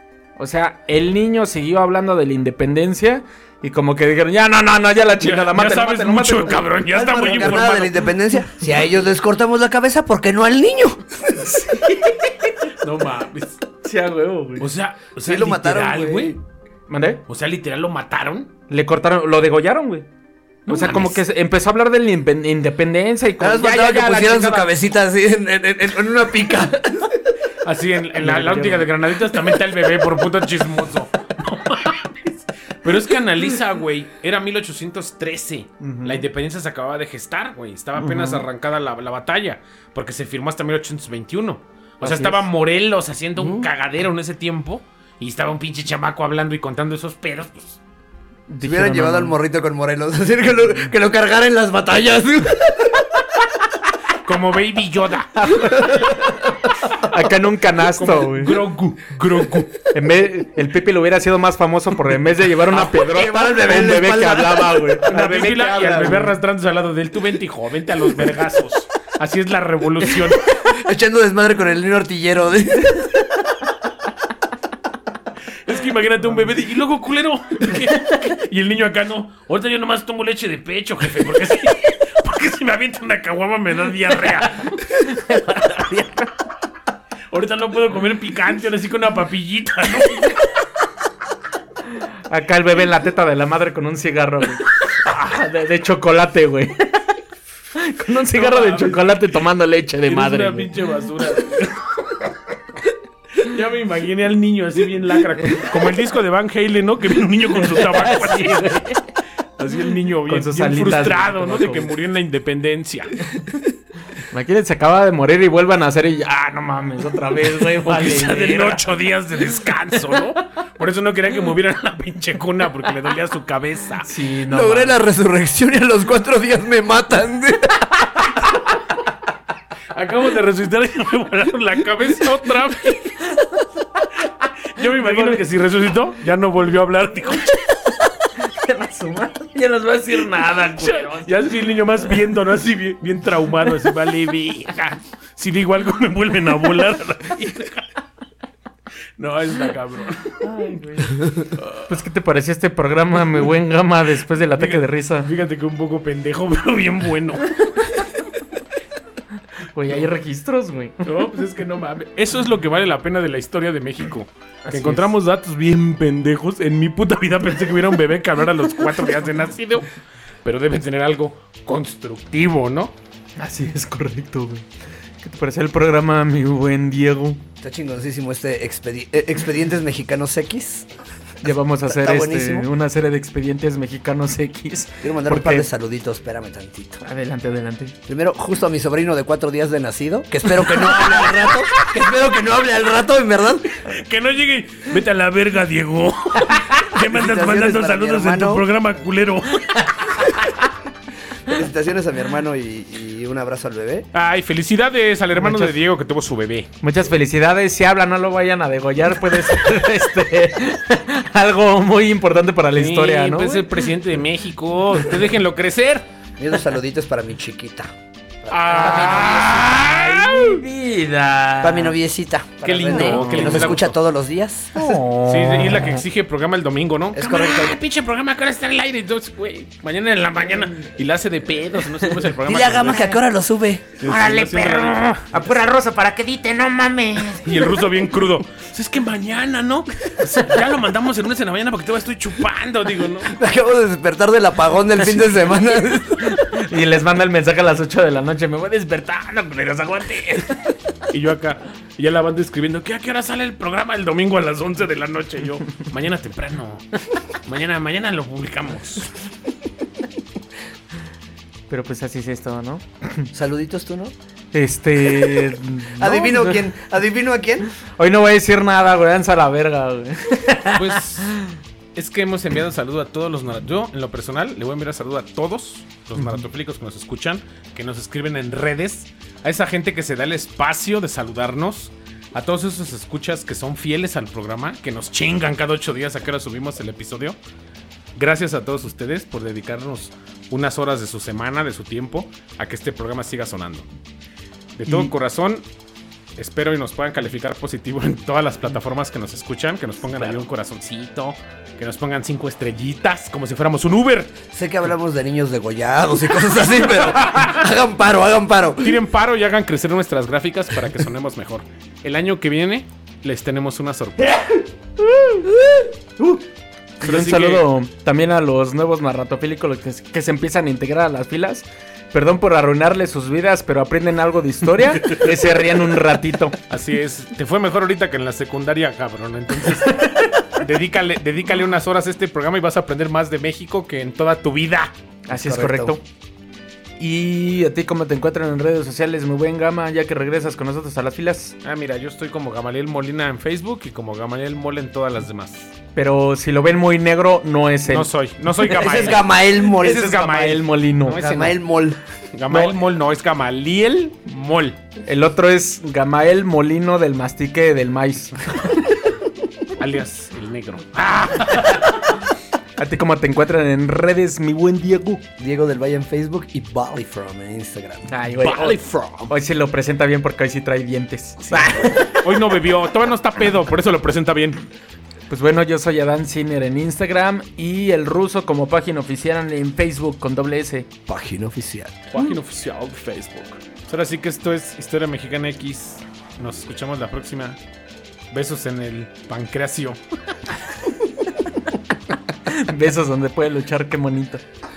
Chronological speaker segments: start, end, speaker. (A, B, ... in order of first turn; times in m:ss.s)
0:00.4-0:06.7 A
0:05.2-0:08.0 B
0:06.8-0:11.3 C
0:11.3-0:12.7 A
0:12.8-0:13.6 B
0:13.8-0:14.7 A
0:14.6-0:16.4 B
0:15.2-0:16.4 C
0:16.9-0:17.2 A
0:17.3-0:18.5 B
0:18.7-0:20.0 A
0:20.6-0:21.2 B
0:20.7-0:24.7 A
0:23.4-0:27.2 C
0:27.6-0:47.8 B
0:28.2-0:28.9 A
0:35.8-0:36.2 A
0:38.0-0:38.4 A
0:42.0-0:42.4 A
0:43.4-0:43.6 C
0:48.5-0:49.3 A
0:48.6-0:53.0 C
0:54.2-0:55.7 B
0:55.4-0:58.6 A
0:56.0-0:56.3 C
0:57.8-0:59.8 B
0:59.9-1:05.2 A
1:02.6-1:06.4 C
1:05.1-1:10.6 B
1:10.6-1:13.2 C
1:15.6-1:24.8 B
1:24.8-1:26.3 A
1:27.3-1:30.5 B
1:32.3-1:37.1 A
1:37.7-1:40.7 A
1:38.3-1:39.3 B
1:40.0-1:42.0 B
1:43.4-1:49.0 B
1:47.6-1:49.0 A
1:49.6-1:53.1 B
1:50.3-1:51.9 A
1:54.2-1:58.8 A
1:57.8-2:04.1 B
2:04.0-2:05.0 A
2:04.5-2:07.9 C
2:09.9-2:13.2 B
2:14.7-2:17.7 B
2:14.9-2:15.4 A
2:18.4-2:21.4 A
2:20.6-2:27.9 B
2:29.2-2:30.8 B
2:30.4-2:35.3 A
2:31.6-2:31.9 B
2:34.6-2:38.0 B
2:39.7-2:41.1 A
2:41.0-2:49.9 B
2:44.6-2:45.1 A
2:50.4-2:52.9 B
2:53.4-2:54.6 A
2:55.2-2:57.4 A
2:57.6-3:00.9 C
3:01.4-3:05.7 A
3:01.8-3:02.7 C
3:05.0-3:07.0 C
3:07.0-3:08.0 A
3:08.1-3:13.7 C
3:13.8-3:20.4 B
3:17.0-3:18.7 C
3:21.4-3:24.0 C
3:24.1-3:26.7 B
3:25.4-3:25.7 A
3:26.8-3:33.8 A
3:32.7-3:36.0 B
3:36.4-3:37.9 C
3:38.4-3:39.7 C
3:38.5-3:40.6 B
3:38.6-3:41.9 A
3:41.6-3:44.9 C
3:42.6-3:44.0 B
3:42.9-3:43.7 A
3:44.7-3:46.0 A
3:45.2-3:53.2 B
3:47.1-3:47.8 C
3:52.4-3:54.0 C
3:54.0-3:55.4 B
3:54.0-3:57.7 A
3:57.3-4:03.4 B
4:03.3-4:06.4 C
4:05.0-4:05.4 A
4:06.2-4:10.4 A
4:11.1-4:19.2 B
4:21.7-4:23.3 A
4:23.3-4:24.1 C
4:24.5-4:26.6 A
4:26.0-4:27.7 C
4:27.8-4:31.4 A
4:30.6-4:31.4 B
4:31.9-4:47.4 B
4:36.2-4:36.4 A
4:48.2-4:53.9 B
4:54.8-4:55.6 B
4:54.8-4:55.1 A
4:56.4-5:04.3 B
5:04.5-5:09.0 C
5:08.8-5:14.3 B
5:15.0-5:16.4 A
5:17.0-5:26.6 A
5:17.0-5:17.7 B
5:26.7-5:34.9 B
5:29.9-5:30.4 A
5:35.3-5:36.0 A
5:35.3-5:35.9 C
5:37.0-5:41.6 A
5:41.6-5:45.7 B
5:46.0-5:48.1 A
5:47.9-5:51.6 B
5:48.6-5:50.3 C
5:50.1-5:51.5 A
5:51.1-5:52.0 C
5:52.3-5:54.8 B
5:52.5-5:52.8 A
5:55.0-5:58.9 A
5:59.8-6:02.0 B
6:02.8-6:05.2 A
6:05.4-6:08.1 C
6:08.1-6:12.4 A
6:08.4-6:09.3 B
6:11.4-6:14.6 B
6:15.3-6:20.9 A
6:21.1-6:22.0 C
6:22.1-6:27.6 B
6:28.3-6:30.0 B
6:32.4-6:34.4 A